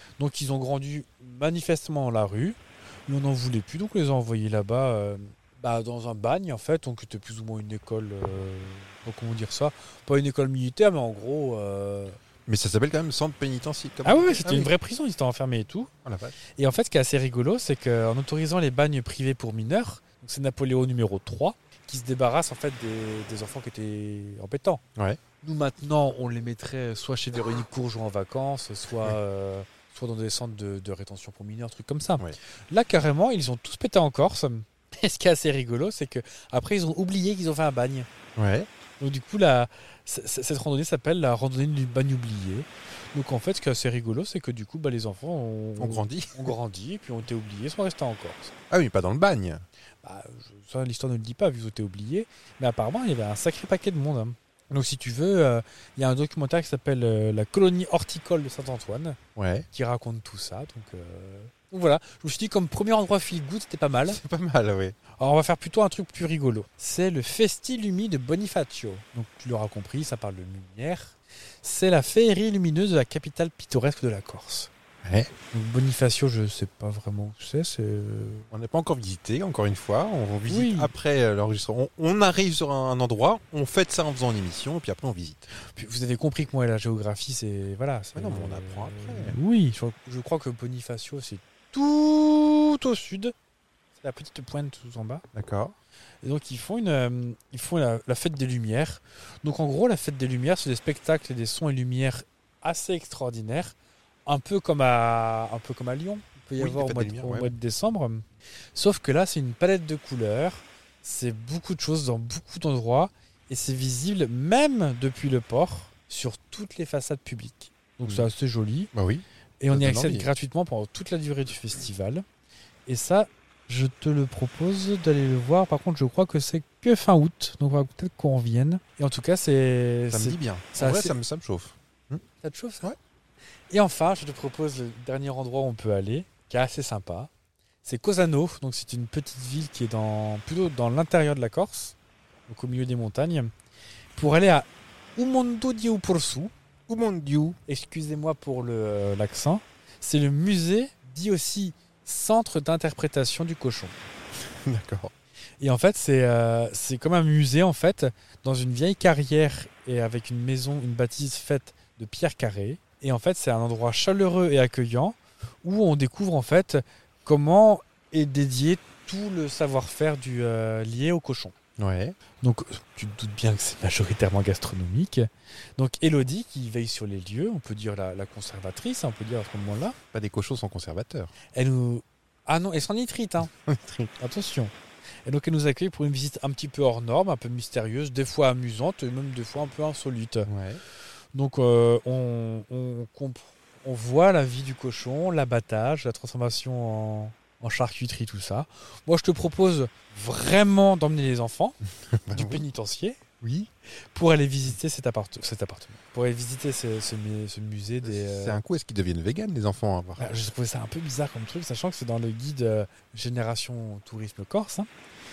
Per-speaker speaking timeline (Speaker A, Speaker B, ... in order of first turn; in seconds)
Speaker A: 0.2-12.2, 14.0-15.9, 16.6-24.8, 25.4-38.1, 39.0-48.5, 50.0-59.2, 59.7-64.2, 65.2-74.7, 75.5-78.4, 80.5-80.9, 85.7-93.3, 94.0-95.2, 96.2-103.7, 104.2-108.2, 108.7-118.9, 119.6-122.2, 122.8-131.2, 132.4-132.9, 133.7-137.3, 137.8-141.9, 142.5-143.5, 144.2-146.5, 147.7-153.9, 155.6-171.5, 172.4-179.9, 181.5-183.5, 184.2-184.7, 185.2-190.5, 191.3-201.8, 202.3-203.2, 204.1-208.6, 210.2-214.9
Speaker B: 12.4-14.7, 16.0-16.4, 38.4-38.7, 45.8-46.5, 48.7-49.6, 59.4-59.7, 64.0-65.0, 75.0-75.3, 78.5-85.5, 88.1-89.4, 95.3-95.7, 106.6-107.5, 118.9-120.3, 130.1-132.2, 146.9-147.6, 154.4-155.1, 171.8-172.2, 180.1-181.3, 183.5-184.1, 190.4-190.8, 202.1-202.6, 203.4-203.7, 208.0-210.3